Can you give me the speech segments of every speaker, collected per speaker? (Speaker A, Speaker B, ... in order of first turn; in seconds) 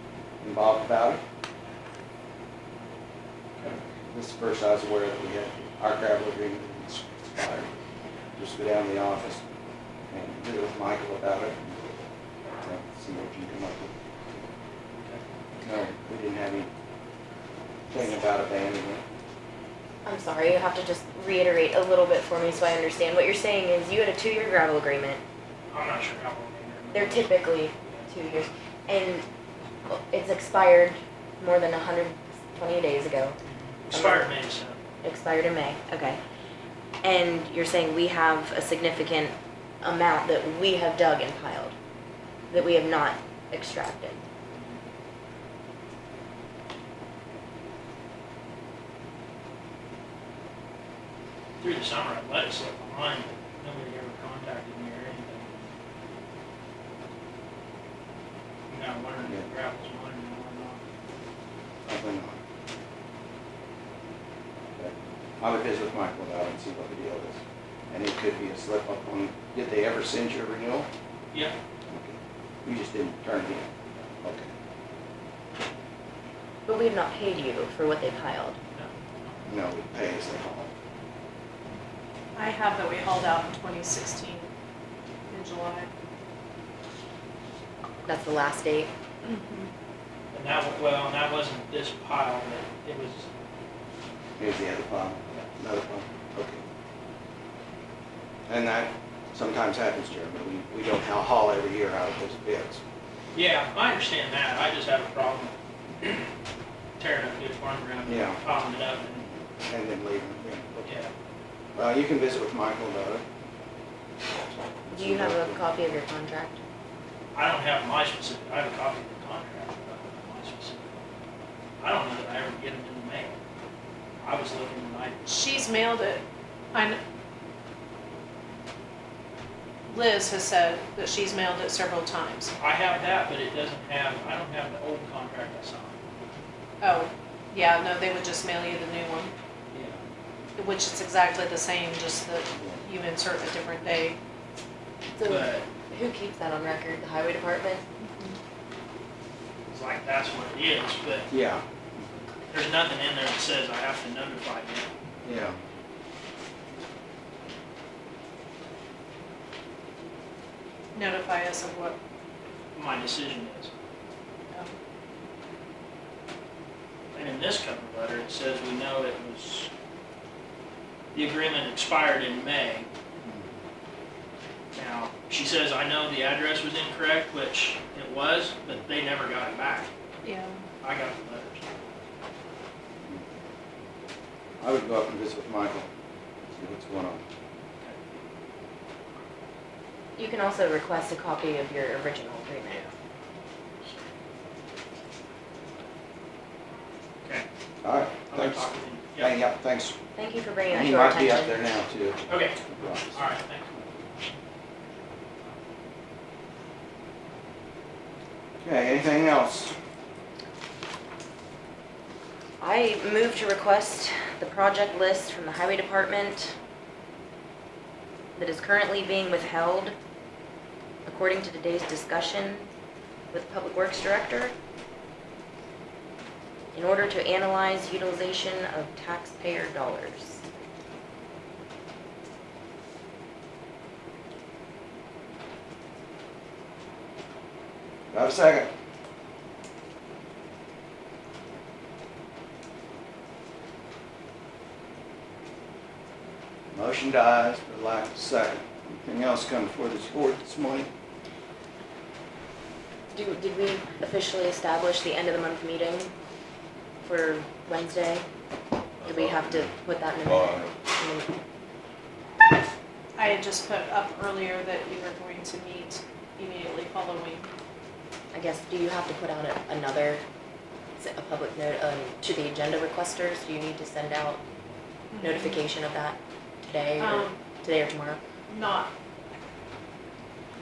Speaker A: 0.4-1.2, 3.7-7.7, 8.4-9.4, 10.1-11.6, 12.6-13.9, 15.6-16.7, 17.9-19.0, 61.8-62.4, 64.7-67.4, 67.9-70.9, 71.9-73.7, 74.2-74.5, 79.5-80.7, 94.4-96.6, 98.5-102.8, 108.0-108.4, 109.1-111.1, 111.7-113.2, 114.8-115.6, 142.5-142.8, 151.3-151.6, 155.2-155.6, 184.6-185.9, 186.5-187.2, 197.8-198.7, 199.2-200.0, 200.7-202.2, 202.7-203.2, 208.6-209.7, 238.1-238.7, 246.7-250.9, 259.0-259.7, 260.3-260.7
Speaker B: 20.0-25.2, 26.9-29.2, 29.9-33.4, 33.9-34.3, 35.0-36.2, 37.0-41.7, 42.5-44.2, 76.7-78.6, 88.0-88.9, 114.9-116.6, 145.1-147.8, 190.2-192.9, 200.2-201.6, 212.6-216.5, 218.3-219.9, 221.1-222.7, 223.3-224.5, 226.7-230.4, 253.1-256.1, 257.0-258.2, 259.0-261.3, 268.3-270.2, 271.0-274.4, 275.2-278.2
Speaker C: 25.7-28.1, 33.5-34.8, 51.6-55.7, 58.7-60.8, 78.7-79.3, 90.3-93.3, 103.3-106.3, 107.0-109.2, 110.8-111.1, 117.3-121.0, 121.8-123.4, 124.2-125.2, 132.6-136.0, 139.7-140.0, 145.2-145.7, 149.7-151.3, 152.5-154.9, 162.7-163.7, 167.1-169.7, 171.1-172.9, 174.7-179.9, 180.8-181.7, 198.3-199.3, 202.3-203.7
Speaker D: 82.3-84.5, 85.3-85.9, 89.2-89.7, 125.2-126.2, 126.7-127.0, 129.9-132.5, 136.8-139.3, 140.6-144.2, 148.0-148.4, 160.9-162.0, 180.2-180.6, 263.1-267.5, 275.1-275.6, 277.0-277.4, 278.5-278.9